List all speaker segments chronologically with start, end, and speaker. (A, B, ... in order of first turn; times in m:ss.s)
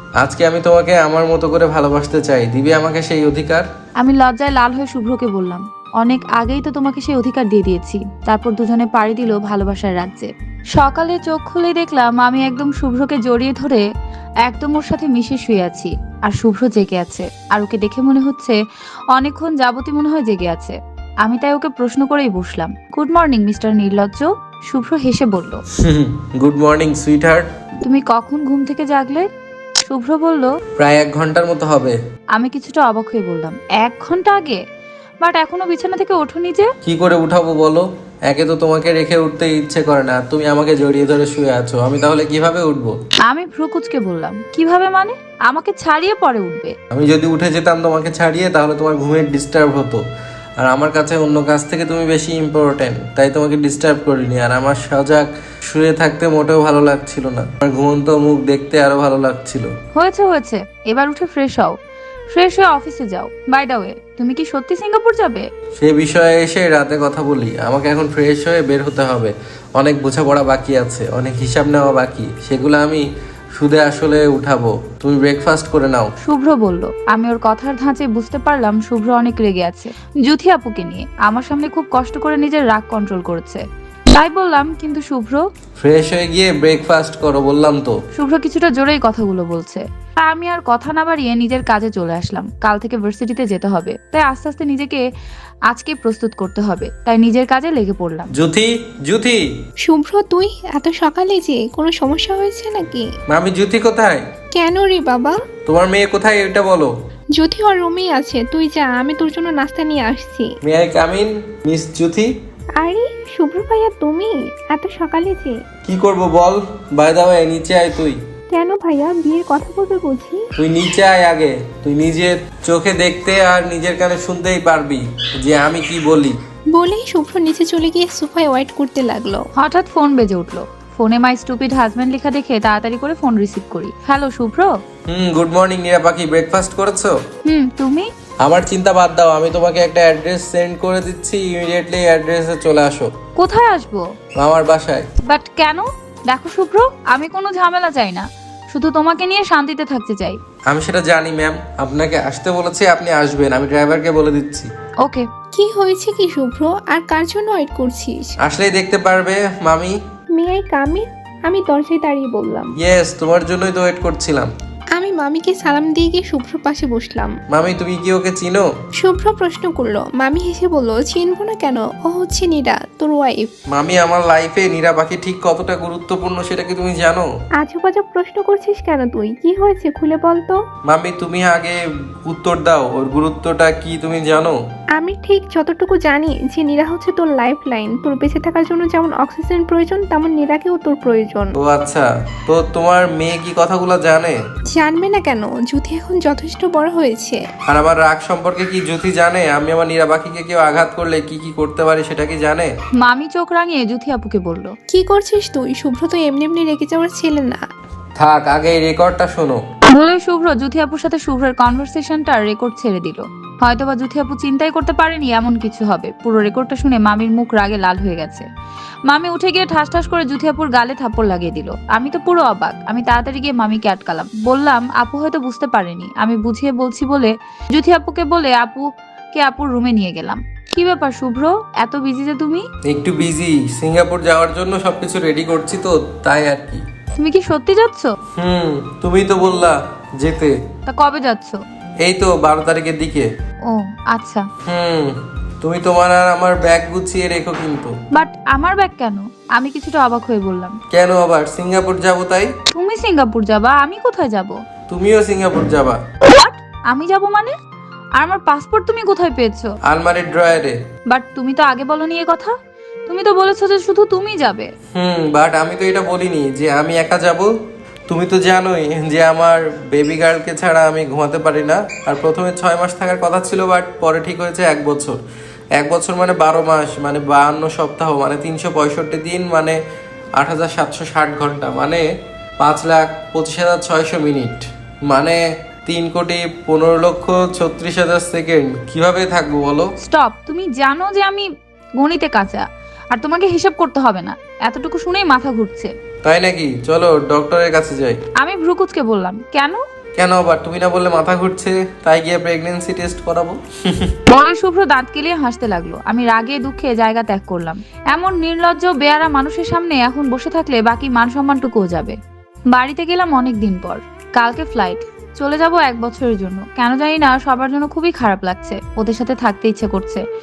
0:00.2-0:03.7 A
0:04.0-0:13.8 B
0:14.4-0:18.6 B
0:19.1-0:25.6 B
0:25.8-0:27.5 A
0:27.8-0:29.3 B
0:29.9-0:30.5 B
0:30.8-0:32.0 A
0:32.3-0:34.6 B
0:35.2-0:36.7 B
0:36.8-0:43.0 A
0:43.3-0:46.7 B
0:46.9-0:50.0 A
0:50.6-0:59.7 A
1:00.0-1:01.7 B
1:02.3-1:05.4 B
1:05.8-1:13.0 A
1:13.6-1:16.1 A
1:16.2-1:25.4 B
1:25.8-1:27.9 A
1:28.2-1:35.0 B
1:35.7-1:38.3 B
1:38.3-1:39.5 A
1:39.8-1:43.1 C
1:43.3-1:44.3 A
1:44.5-1:45.4 C
1:45.7-1:46.9 A
1:47.4-1:50.5 C
1:50.6-1:52.3 A
1:52.8-1:55.6 C
1:55.8-1:58.2 A
1:58.5-2:00.4 C
2:00.6-2:06.4 A
2:06.7-2:09.4 C
2:09.6-2:14.7 B
2:15.1-2:17.2 A
2:17.4-2:18.1 B
2:18.4-2:23.1 A
2:23.4-2:24.0 B
2:24.4-2:25.1 A
2:25.3-2:30.4 B
2:30.7-2:34.7 A
2:35.5-2:38.3 C
2:38.4-2:39.9 A
2:40.4-2:42.7 C
2:42.8-2:44.5 A
2:45.0-2:47.3 C
2:47.5-2:48.7 A
2:49.0-2:53.5 C
2:53.7-2:57.3 A
2:57.6-3:00.6 C
3:00.9-3:04.6 A
3:05.0-3:11.5 C
3:11.5-3:14.4 A
3:14.7-3:17.4 C
3:17.7-3:22.7 A
3:23.0-3:24.7 B
3:24.9-3:27.6 C
3:28.2-3:29.6 A
3:29.9-3:38.4 B
3:39.1-3:52.6 B
3:52.8-3:56.8 A
3:57.2-3:58.1 B
3:58.4-4:00.6 A
4:00.9-4:01.6 B
4:02.0-4:03.3 A
4:03.7-4:04.5 B
4:04.6-4:07.9 A
4:08.1-4:10.8 B
4:10.9-4:12.5 A
4:12.7-4:14.6 B
4:14.9-4:16.0 A
4:16.3-4:17.5 B
4:18.2-4:19.7 B
4:19.8-4:20.8 A
4:21.1-4:22.5 B
4:23.1-4:24.7 B
4:24.9-4:27.5 A
4:28.1-4:35.2 A
4:35.8-4:39.8 A
4:40.4-4:42.0 A
4:42.6-4:49.9 A
4:50.0-4:51.4 B
4:52.0-4:55.9 B
4:56.2-4:58.2 A
4:58.4-4:59.8 B
5:00.2-5:04.1 A
5:04.3-5:12.2 B
5:12.7-5:20.2 B